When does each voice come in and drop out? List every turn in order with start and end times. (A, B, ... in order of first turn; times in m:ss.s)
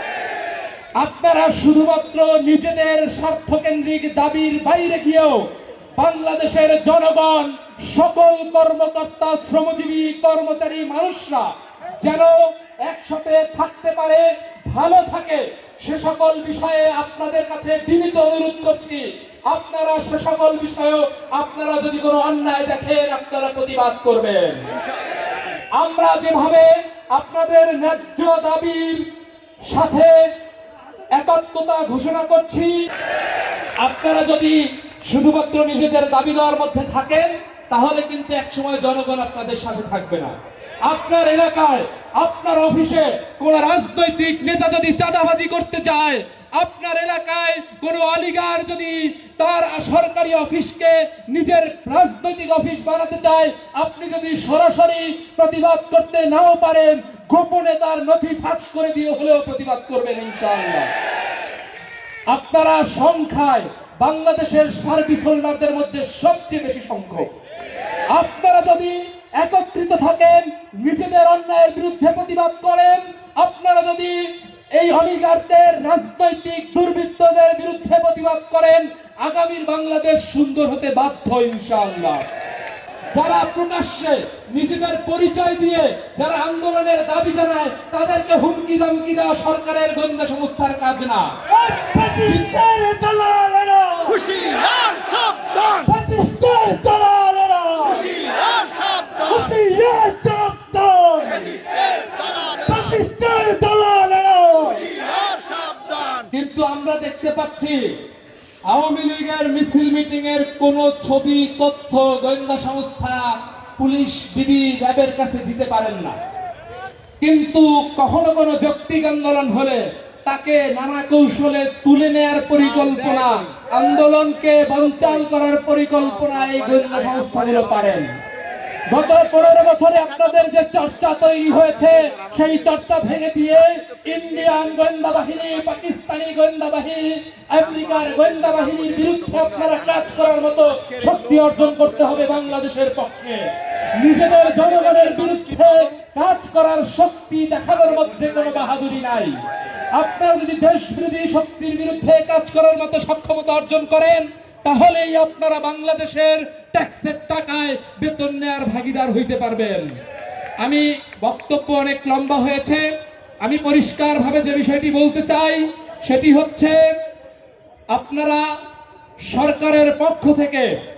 0:01.0-0:11.5 A
0:12.0-0:24.6 A
0:25.8-0:29.1 A
0:29.6-0:30.2 A
0:31.1-0:32.8 A
0:33.8-0:40.3 A
0:40.8-1:00.9 A
1:02.3-1:07.3 A
1:08.1-1:22.2 A
1:23.1-1:31.3 A
1:31.5-1:34.5 B
1:34.5-1:35.5 C
1:35.8-1:38.2 B
1:38.4-1:39.2 C
1:39.2-1:41.7 B
1:42.0-1:42.5 C
1:42.6-1:45.0 B
1:45.3-1:46.2 C
1:46.3-1:47.8 A
1:48.7-1:56.2 A
1:57.2-2:08.1 A
2:02.9-2:03.3 C
2:06.3-2:07.7 C
2:08.9-2:29.4 A
2:11.6-2:12.9 C
2:18.1-2:22.4 C
2:24.3-2:26.0 C
2:29.9-2:39.9 A
2:40.6-2:42.9 A
2:43.4-2:46.8 A
2:47.9-2:48.5 A
2:49.2-2:50.7 A